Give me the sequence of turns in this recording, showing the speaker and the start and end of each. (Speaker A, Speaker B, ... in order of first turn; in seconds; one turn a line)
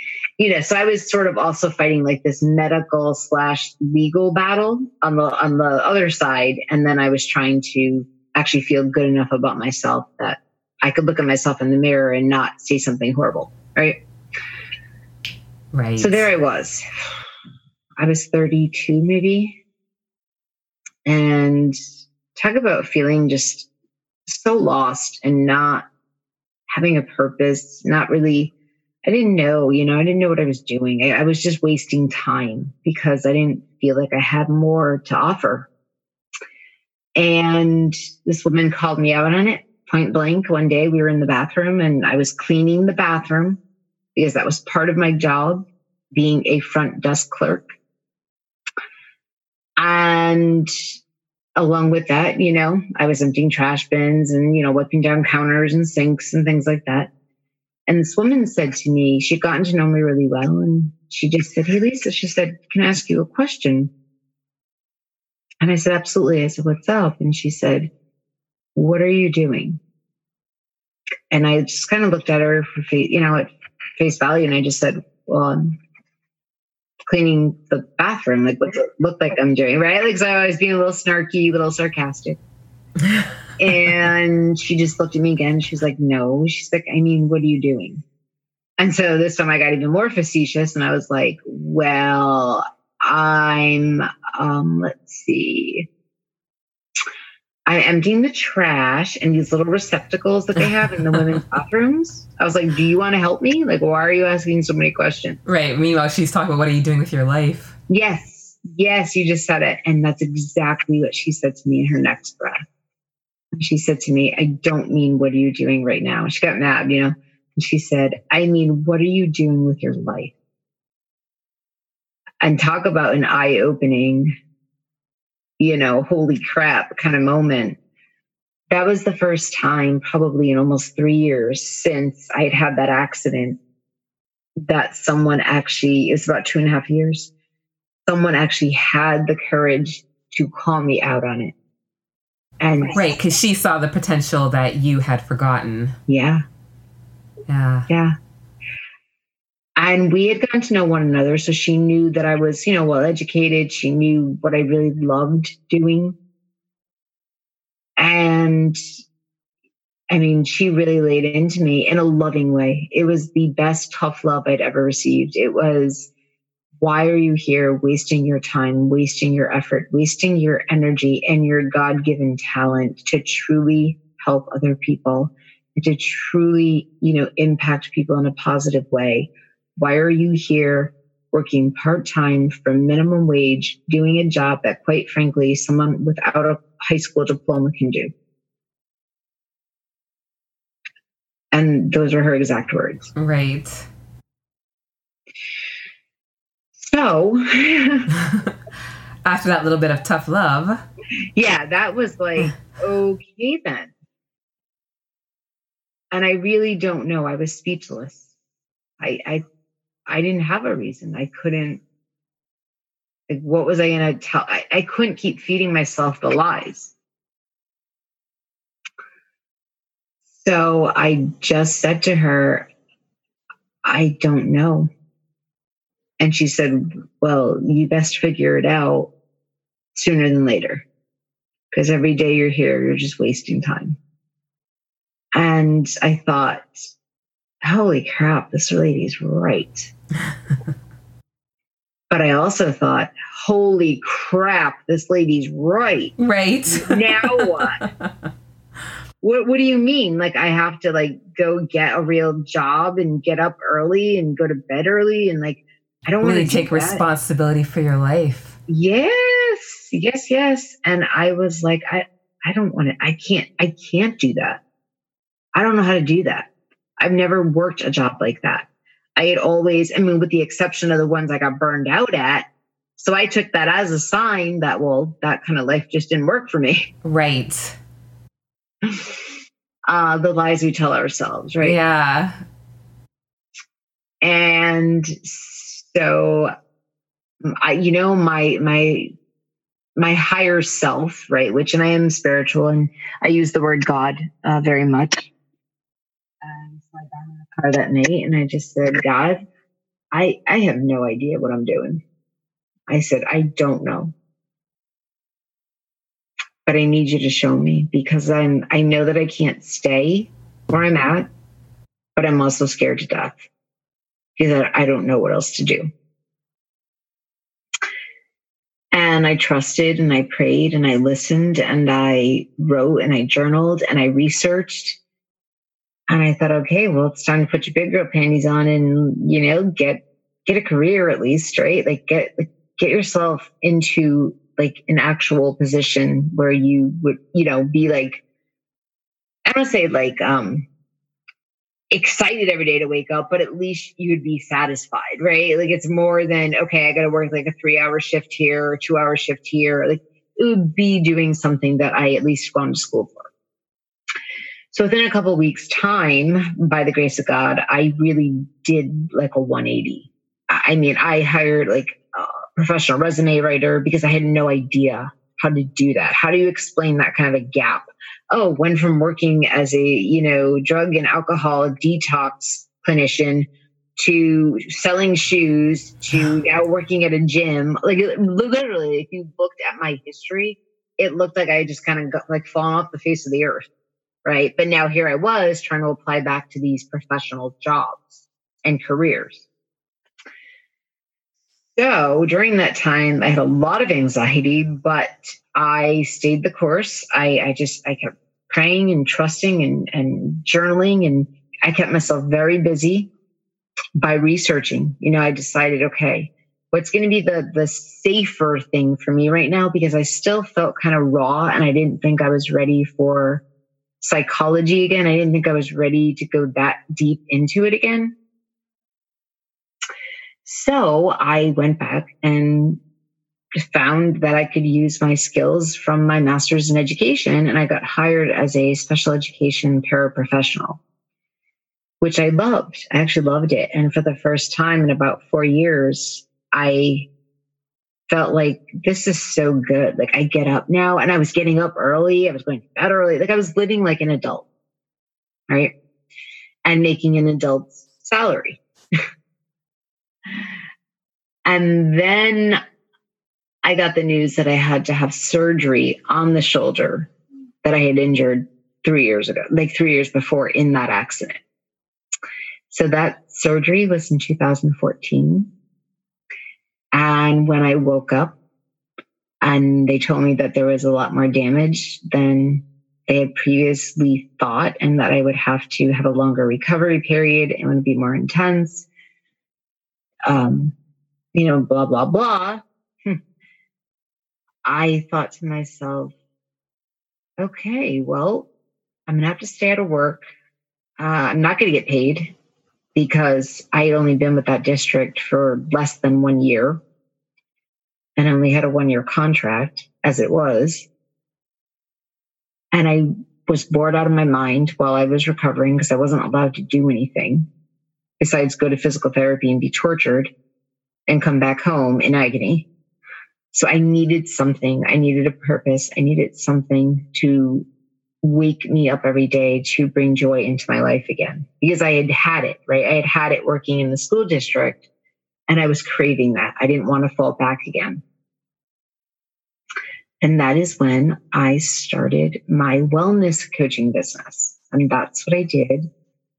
Speaker A: 0.4-14.0
Speaker B: 15.7-16.3
Speaker A: 16.0-16.8
Speaker A: 18.0-19.6
Speaker A: 21.0-21.8
Speaker A: 22.3-23.7
Speaker A: 24.3-25.8
Speaker A: 26.7-28.5
Speaker A: 29.0-35.7
Speaker A: 37.2-43.6
Speaker A: 44.1-47.6
Speaker A: 49.8-50.7
Speaker A: 51.5-57.1
Speaker A: 57.9-63.9
Speaker A: 65.6-67.9
Speaker A: 68.7-69.8
Speaker A: 71.3-75.8
Speaker A: 77.1-82.4
Speaker A: 83.6-88.0
Speaker A: 88.8-95.9
Speaker A: 97.7-105.4
Speaker B: 105.5-107.7
Speaker A: 107.9-112.6
Speaker A: 113.6-120.3
Speaker A: 122.4-124.3
Speaker A: 125.6-127.8
Speaker A: 128.7-133.6
Speaker A: 134.7-137.3
Speaker A: 138.1-141.5
Speaker A: 142.6-143.0
Speaker B: 142.9-145.9
Speaker A: 146.1-146.4
Speaker B: 147.5-147.9
Speaker A: 147.9-148.1
Speaker A: 149.8-156.2
Speaker A: 158.0-158.8
Speaker A: 160.1-166.1
Speaker A: 166.8-188.1
Speaker A: 191.5-193.1
Speaker B: 193.2-193.8
Speaker A: 196.8-198.1
Speaker B: 198.2-198.5
Speaker B: 199.2-200.8
Speaker A: 201.3-203.9
Speaker A: 206.1-208.3
Speaker A: 209.0-209.4
Speaker A: 210.1-211.8
Speaker A: 213.3-216.9
Speaker A: 220.3-222.7
Speaker A: 223.8-224.9
Speaker A: 226.2-229.1
Speaker A: 229.9-230.8
Speaker A: 231.7-234.0
Speaker A: 235.3-236.7
Speaker A: 237.6-239.9
Speaker A: 242.1-246.1
Speaker B: 246.2-248.1
Speaker A: 246.7-247.8
Speaker A: 249.2-257.0
Speaker B: 256.2-258.6
Speaker A: 258.7-264.6
Speaker A: 265.5-266.5
Speaker A: 267.0-272.4
Speaker A: 273.0-276.9
Speaker B: 277.0-277.8
Speaker A: 278.8-279.2
Speaker A: 279.9-281.8
Speaker B: 281.6-282.3
Speaker A: 284.2-286.5
Speaker A: 287.4-289.1
Speaker A: 290.0-295.3
Speaker A: 296.4-299.4
Speaker A: 300.1-302.0
Speaker A: 302.9-304.1
Speaker A: 306.6-311.3
Speaker A: 312.1-313.5
Speaker A: 314.4-315.9
Speaker A: 318.9-325.0
Speaker A: 326.1-338.2
Speaker A: 339.5-340.7
Speaker A: 341.9-353.3
Speaker A: 354.7-383.7
Speaker A: 384.2-389.4
Speaker A: 391.8-403.1
Speaker A: 404.0-413.4
Speaker A: 414.0-418.1
Speaker A: 420.4-422.8
Speaker A: 423.6-430.8
Speaker A: 432.0-437.1
Speaker A: 438.1-444.5
Speaker A: 445.5-445.7
Speaker A: 446.6-448.6
Speaker A: 450.3-450.5
Speaker A: 451.4-452.6
Speaker A: 453.6-457.1
Speaker A: 457.6-461.4
Speaker A: 462.7-465.5
Speaker A: 466.9-468.4
Speaker A: 469.4-478.9
Speaker A: 480.3-480.7
Speaker A: 481.3-483.2
Speaker A: 484.6-486.1
Speaker A: 487.4-488.5
Speaker A: 489.1-490.2
Speaker A: 491.0-492.3
Speaker A: 492.9-496.8
Speaker A: 498.2-500.9
Speaker A: 502.7-507.5
Speaker A: 508.2-510.3
Speaker A: 511.1-512.7
Speaker A: 513.5-517.7
Speaker A: 518.2-524.9
Speaker A: 525.5-528.0
Speaker A: 530.2-535.9